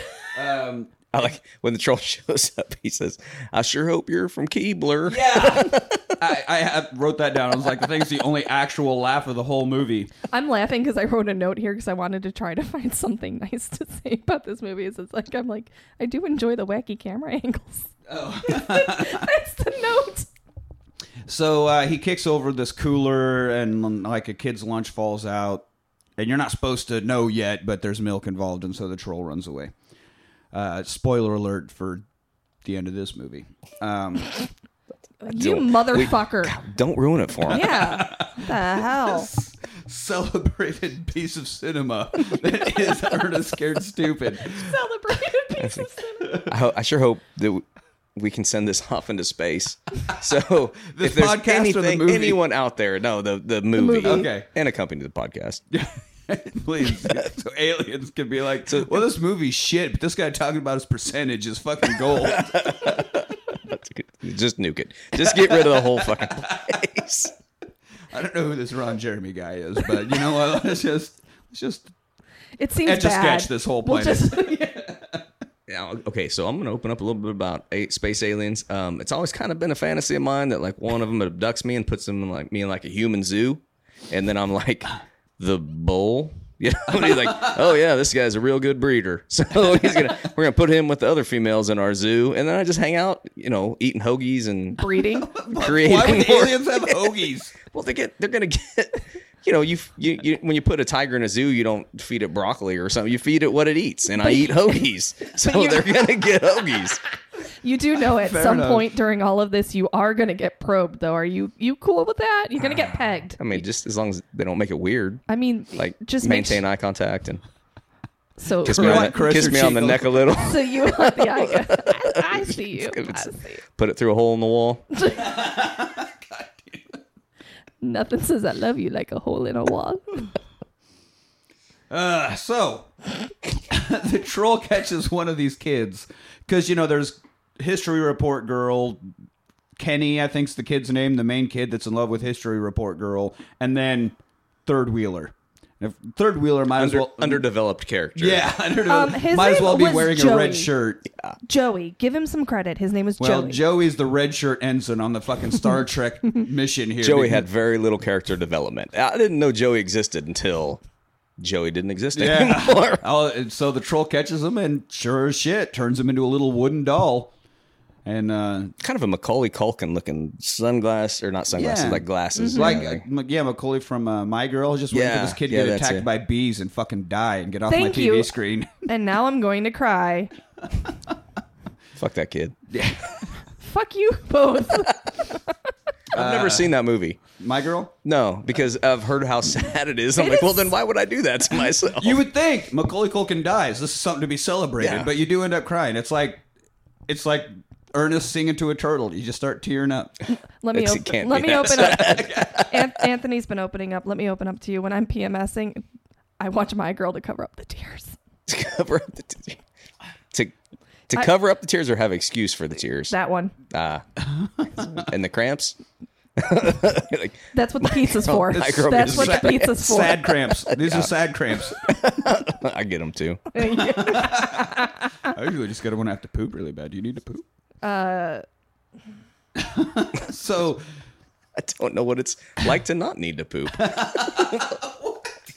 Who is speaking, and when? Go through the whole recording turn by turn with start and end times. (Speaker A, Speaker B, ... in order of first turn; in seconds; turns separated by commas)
Speaker A: 0.3-0.9, Speaker B: 1.1-6.2, Speaker A: 5.1-10.1, Speaker C: 10.3-17.9, Speaker A: 18.1-19.3, Speaker C: 18.4-20.3, Speaker A: 21.3-25.6, Speaker A: 26.2-29.7, Speaker A: 30.5-32.0, Speaker A: 32.6-34.4, Speaker C: 35.2-36.6, Speaker B: 35.3-38.0, Speaker A: 37.5-44.7, Speaker C: 37.5-39.3, Speaker C: 44.4-46.5, Speaker B: 45.6-45.9, Speaker B: 46.5-55.6, Speaker A: 50.9-52.4, Speaker C: 53.8-54.3, Speaker A: 54.0-54.5, Speaker A: 55.7-63.0, Speaker B: 58.6-59.0, Speaker B: 62.0-67.3, Speaker A: 65.2-66.8, Speaker A: 68.1-71.9, Speaker C: 72.6-74.8, Speaker A: 72.8-75.2, Speaker B: 75.7-94.8, Speaker C: 94.8-95.3, Speaker A: 95.3-97.5, Speaker B: 95.5-107.0, Speaker C: 104.2-106.0, Speaker C: 107.6-113.6, Speaker A: 108.2-108.9, Speaker B: 113.4-115.2, Speaker C: 115.3-116.6, Speaker B: 115.8-117.4, Speaker C: 118.4-119.3, Speaker A: 118.6-120.3, Speaker B: 118.6-124.8, Speaker C: 120.3-123.6, Speaker C: 124.9-125.4, Speaker A: 125.2-126.9, Speaker C: 127.8-130.2, Speaker A: 131.9-132.9, Speaker A: 133.7-139.1, Speaker A: 139.8-147.5, Speaker B: 146.7-148.5, Speaker A: 148.2-151.0, Speaker C: 148.8-150.7, Speaker C: 151.4-153.6, Speaker A: 153.2-157.4, Speaker B: 157.0-160.8, Speaker B: 161.4-163.0, Speaker A: 162.1-167.3, Speaker A: 168.0-168.7, Speaker B: 168.8-173.0, Speaker A: 171.5-178.8, Speaker C: 172.4-172.8, Speaker B: 174.9-176.1, Speaker C: 177.7-178.3, Speaker C: 178.9-180.3, Speaker B: 182.0-182.6, Speaker A: 182.7-183.2, Speaker C: 183.6-185.5, Speaker B: 186.1-187.2, Speaker A: 186.1-186.7, Speaker A: 187.4-187.9, Speaker B: 188.0-192.2, Speaker C: 190.2-190.7, Speaker A: 192.0-196.4, Speaker B: 194.8-195.1, Speaker A: 197.1-200.1, Speaker C: 200.6-205.8, Speaker B: 200.7-203.0, Speaker C: 206.4-208.2, Speaker B: 208.5-209.6, Speaker B: 211.1-213.2, Speaker C: 213.1-213.5, Speaker B: 213.7-214.1, Speaker A: 214.2-215.0, Speaker B: 214.6-215.8, Speaker B: 216.4-220.1, Speaker C: 217.5-220.3, Speaker A: 218.5-221.9, Speaker B: 220.7-223.4, Speaker C: 223.5-225.1, Speaker A: 223.8-224.7, Speaker A: 225.3-227.4, Speaker C: 227.8-228.4, Speaker A: 229.6-230.8, Speaker B: 231.6-234.8, Speaker A: 233.8-235.0